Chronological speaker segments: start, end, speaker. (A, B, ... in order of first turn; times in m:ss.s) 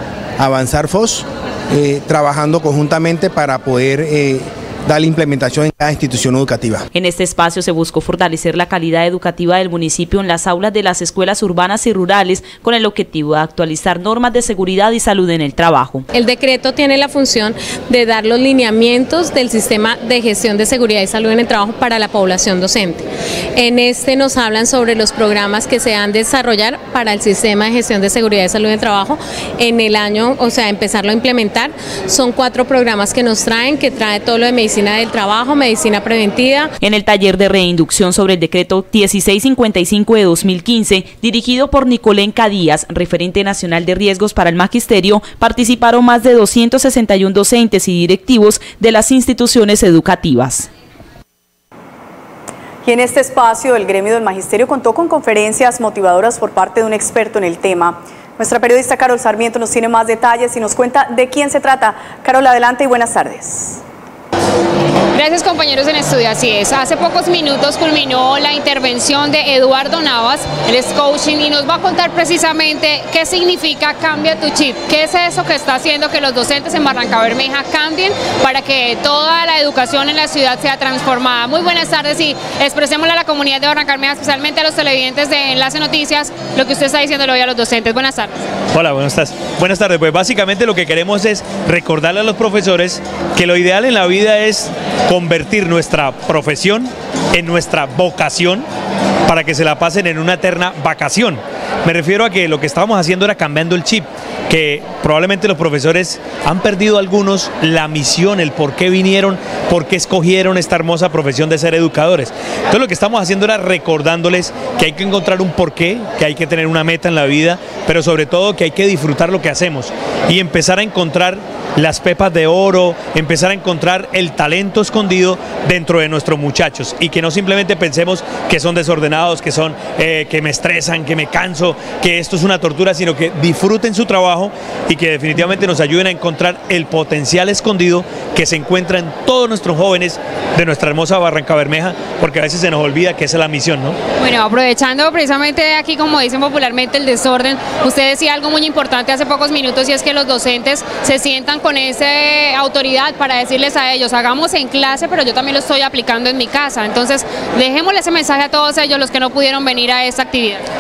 0:00.4-0:06.8 A
0:06.9-0:16.0 B
0:16.1-0:36.7 C
0:36.8-0:50.7 B
0:52.8-1:03.8 D
1:05.1-1:28.4 E
1:28.7-1:38.6 F
1:39.3-2:24.0 F
2:24.2-2:40.7 E